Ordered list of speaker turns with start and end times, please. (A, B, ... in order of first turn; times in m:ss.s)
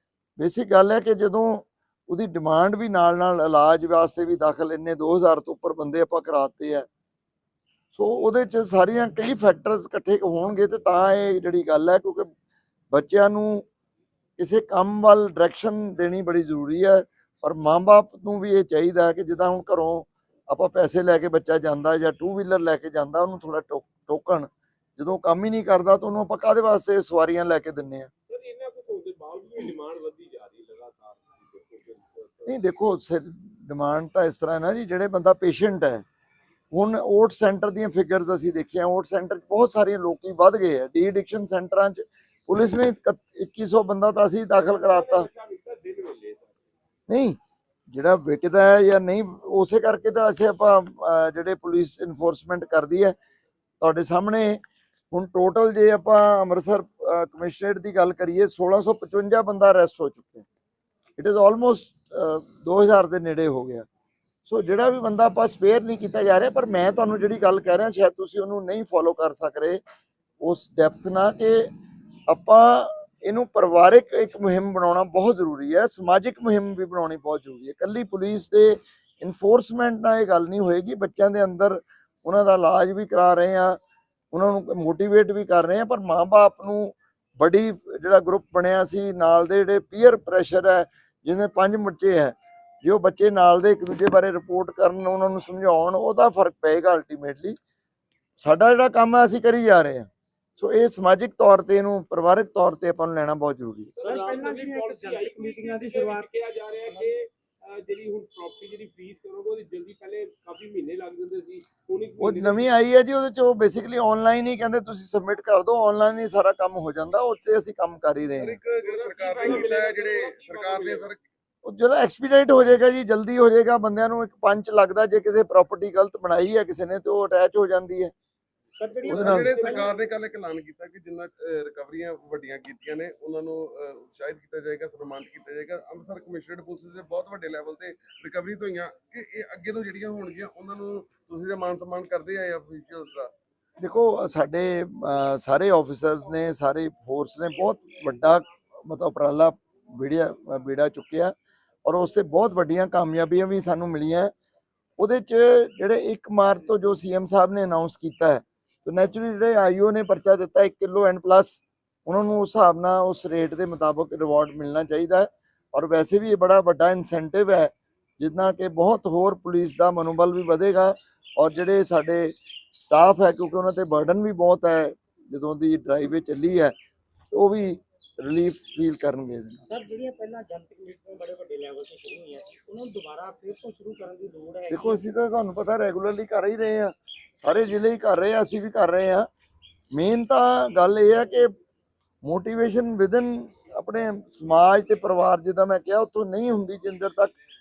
0:00.4-0:06.9 A
0:07.9-0:12.3 A
0:12.9-0:13.6 A
0:14.4-0:28.1 A
0:28.3-0:32.6 B
0:32.5-0:36.0 A
0:36.7-0:45.3 A
0:44.5-0:46.6 B
0:47.1-0:47.4 A
0:47.9-0:53.2 A
0:53.8-1:00.5 A
1:01.2-1:03.9 A
1:04.5-1:09.8 A
1:10.4-1:11.7 A
1:12.3-1:23.8 A
1:24.3-1:37.6 A
1:38.4-1:43.9 A
1:44.0-1:52.7 B
1:44.0-1:46.3 C
1:46.9-1:47.1 C
1:52.2-1:58.6 A
1:58.4-2:01.2 D
1:58.8-2:01.1 B
2:01.6-2:08.1 A
2:08.8-2:09.9 C
2:09.0-2:23.3 D
2:09.1-2:09.5 A
2:09.4-2:09.9 B
2:23.8-2:34.3 A
2:35.0-2:56.8 A
2:57.3-2:59.6 A
2:59.7-3:05.0 C
3:04.7-3:09.3 A
3:09.9-3:11.5 A
3:12.2-3:17.3 A